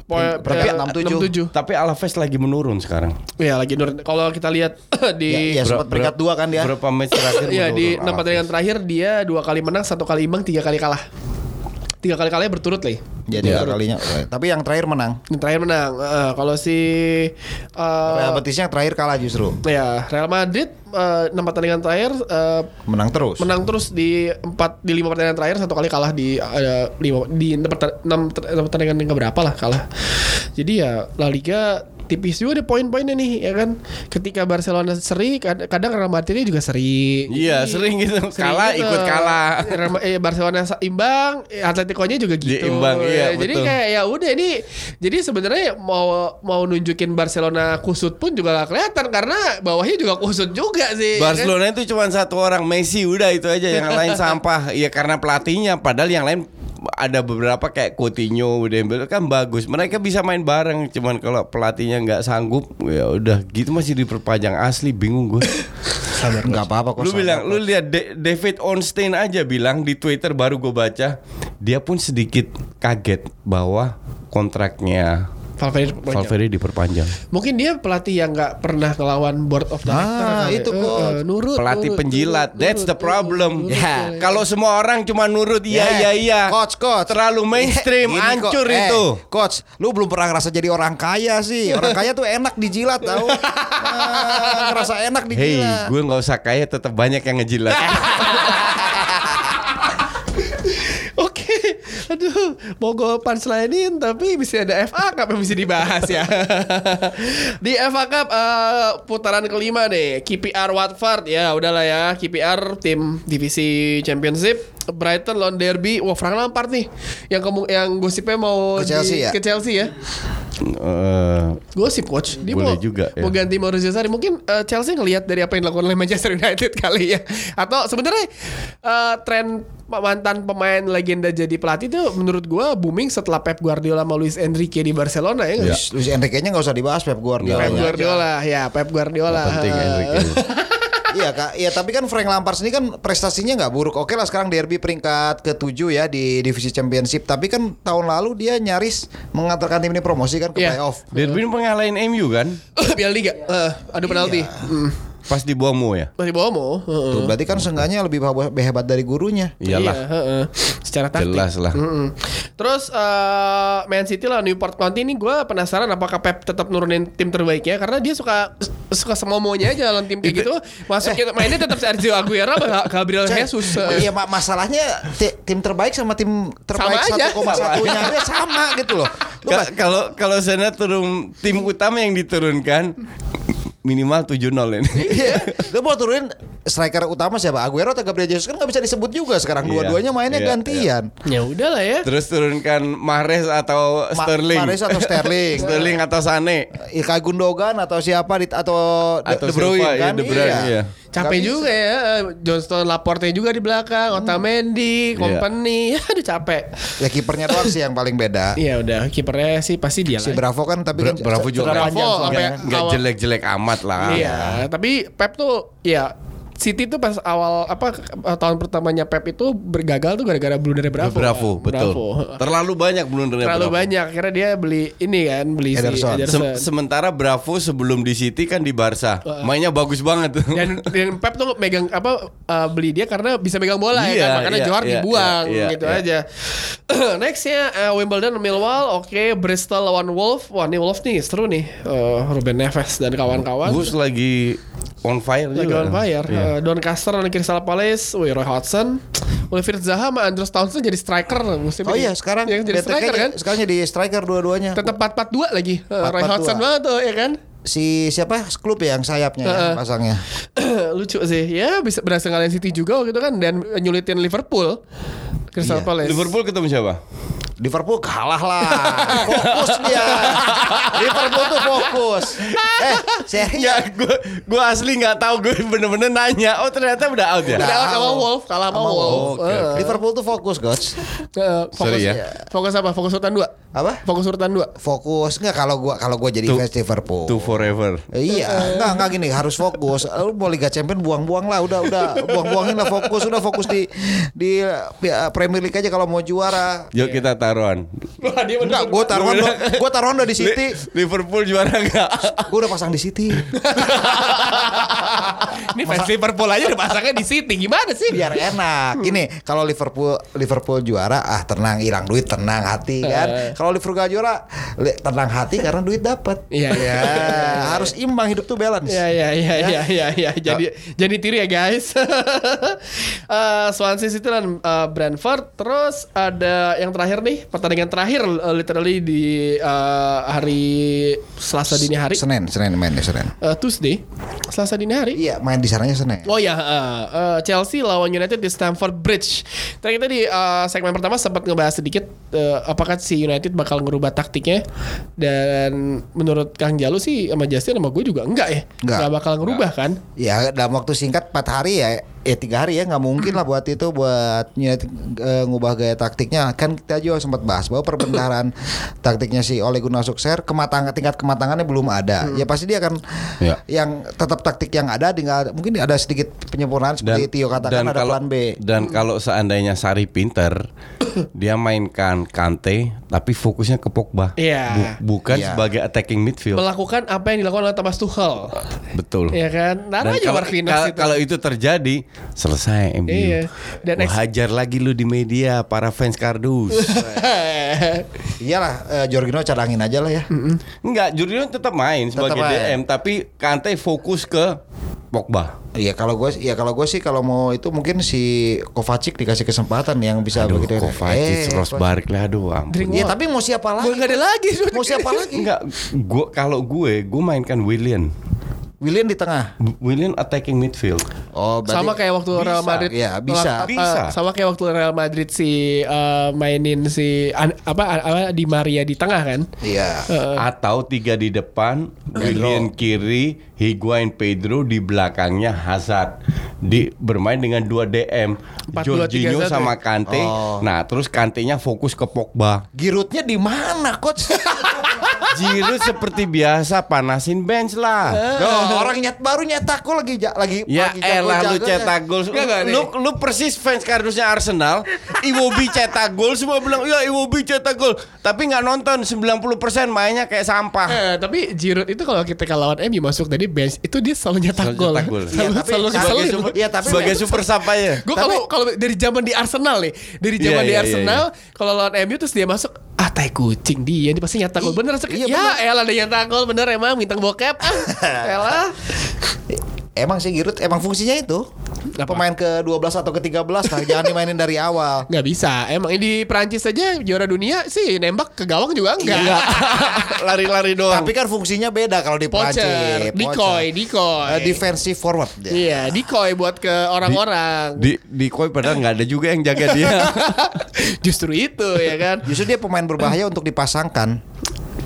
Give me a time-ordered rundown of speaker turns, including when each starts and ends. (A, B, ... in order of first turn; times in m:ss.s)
0:00.1-0:01.5 A
0:00.1-0:01.3 B
0:01.5-0:03.2 C
0:03.4-0:05.6 A
0:05.3-0:06.7 B
0:05.6-0:08.5 C
0:07.1-0:11.0 A
0:12.0-0:13.8 A
0:13.3-0:15.2 B
0:15.3-0:18.4 A
0:18.1-0:19.6 B
0:19.6-0:22.7 A
0:22.9-0:23.5 B
0:23.4-0:51.5 A
0:37.3-0:39.9 C
0:42.4-0:43.7 C
0:51.2-1:05.7 C
0:53.8-0:54.2 A
1:06.0-1:06.6 A
1:06.4-1:07.6 B
1:07.0-1:15.3 C
1:15.6-1:16.4 A
1:16.1-1:17.2 C
1:17.3-1:24.4 A
1:19.9-1:21.2 B
1:21.6-1:26.6 C
1:23.7-1:24.2 B
1:25.7-1:35.9 B
1:27.1-1:29.2 C
1:31.7-1:32.0 A
1:33.0-1:34.8 A
1:35.4-1:38.6 C
1:37.8-1:39.8 A
1:38.6-1:39.2 B
1:40.4-2:00.0 A
1:58.8-1:59.4 B
2:00.6-2:01.6 C
2:01.7-2:15.8 A
2:02.5-2:03.4 C
2:15.6-2:18.2 B
2:17.4-2:17.9 C
2:17.6-2:21.1 A
2:19.3-2:20.4 C
2:21.1-2:31.0 B
2:30.6-2:31.4 A
2:31.1-2:32.6 C
2:32.8-2:35.0 A
2:34.0-2:34.7 B
2:35.3-2:36.1 C
2:36.2-2:37.4 A
2:37.1-2:39.6 B
2:39.6-2:40.0 C
2:39.7-2:54.1 A
2:41.2-2:41.8 C
2:50.2-2:50.5 C
2:53.2-2:59.7 B
2:56.8-2:58.3 A
2:57.4-2:58.2 C
2:59.5-3:03.0 C
3:03.8-3:05.6 C
3:05.0-3:05.7 A
3:05.2-3:11.1 B
3:09.6-3:10.9 C
3:11.2-3:12.1 A
3:12.0-3:16.7 C
3:14.2-3:16.0 B
3:16.8-3:21.7 B
3:19.3-3:20.9 C
3:21.1-3:27.7 A
3:24.1-3:24.4 B
3:25.2-3:25.5 C
3:27.0-3:28.6 B
3:28.6-3:30.4 A
3:30.2-3:32.6 B
3:31.0-3:34.3 C
3:31.6-3:33.0 A
3:34.1-3:42.4 A
3:34.1-3:34.6 B
3:41.0-3:43.9 C
3:43.4-3:46.7 A
3:45.7-3:46.3 B
3:46.3-3:50.9 C
3:50.5-4:03.9 A
3:54.0-3:56.0 C
4:03.6-4:06.5 C
4:05.6-4:13.4 A
4:11.8-4:15.0 B
4:14.8-4:17.4 A
4:16.0-4:16.6 B
4:17.6-4:20.2 B
4:19.4-4:19.8 A
4:20.6-4:24.8 A
4:25.5-4:26.4 A
4:25.6-4:25.9 B
4:26.0-4:27.0 C
4:27.6-4:33.9 B
4:28.7-4:31.9 A
4:29.1-4:30.9 C
4:32.4-4:33.3 A
4:32.6-4:37.7 C
4:37.4-4:41.0 B
4:37.6-4:40.0 A
4:39.1-4:40.0 C
4:41.4-4:43.5 A
4:41.8-4:42.2 C
4:43.7-4:44.0 B
4:44.0-4:44.7 A
4:44.8-4:56.9 B
4:47.3-4:48.0 C
4:48.3-4:49.1 A
4:51.9-4:53.5 A
4:56.9-4:57.9 C
4:58.2-4:59.2 A
4:58.6-5:00.8 B
4:59.1-5:02.5 C
5:02.4-5:03.5 B
5:03.5-5:08.5 A
5:04.0-5:04.5 C
5:04.8-5:05.1 B
5:05.8-5:06.1 B
5:08.1-5:19.9 B
5:13.0-5:13.6 A
5:16.5-5:17.9 A
5:18.9-5:32.2 A
5:31.9-5:33.3 B
5:33.4-5:35.2 A
5:35.2-5:36.3 B
5:36.2-5:44.6 A
5:45.2-5:50.0 A
5:48.8-5:49.1 B
5:50.2-5:58.5 B
5:59.0-6:08.6 B
6:07.0-6:10.6 C
6:11.3-6:16.6 C
6:14.4-6:15.0 A
6:15.3-6:15.6 B
6:16.5-6:18.6 A
6:18.9-6:19.4 C
6:19.3-6:21.2 A
6:20.0-6:23.4 C
6:23.1-6:24.2 A
6:24.0-6:27.2 C
6:26.7-6:28.1 A
6:28.4-6:30.3 B
6:30.3-6:30.6 A
6:30.8-6:34.6 C
6:32.2-6:32.8 B
6:35.1-6:35.5 C
6:35.8-6:41.8 B
6:40.4-6:43.0 C
6:42.7-6:43.2 A
6:42.9-6:45.5 B
6:43.8-6:45.3 A
6:45.3-6:48.1 C
6:48.8-6:49.5 B
6:49.6-6:51.0 C
6:51.4-6:53.7 B
6:51.7-6:59.5 A
6:53.6-6:54.2 C
6:59.6-7:00.1 B
7:00.1-7:00.4 A
7:00.4-7:12.7 C
7:02.2-7:02.7 B
7:08.7-7:09.7 A
7:10.1-7:10.7 B
7:12.7-7:15.3 B
7:14.4-7:15.3 A
7:15.3-7:18.2 C
7:18.1-7:18.9 A
7:18.3-7:21.9 B
7:20.7-7:31.0 C
7:22.3-7:22.9 A
7:30.9-7:48.9 A
7:34.6-7:35.4 C
7:35.3-7:37.4 B
7:35.9-7:38.1 C
7:38.2-7:38.4 B
7:40.4-7:41.2 C
7:45.1-7:45.6 B
7:47.8-7:48.6 B
7:49.5-7:51.5 B
7:52.0-7:52.2 A
7:52.1-7:55.1 B
7:53.7-7:54.1 A
7:55.1-8:00.2 A
7:59.0-7:59.8 B
7:59.1-8:01.1 C
8:00.9-8:03.7 B
8:02.3-8:04.6 A
8:04.2-8:05.9 B
8:05.5-8:07.9 A
8:07.8-8:10.4 C
8:09.7-8:12.3 A
8:12.2-8:14.2 B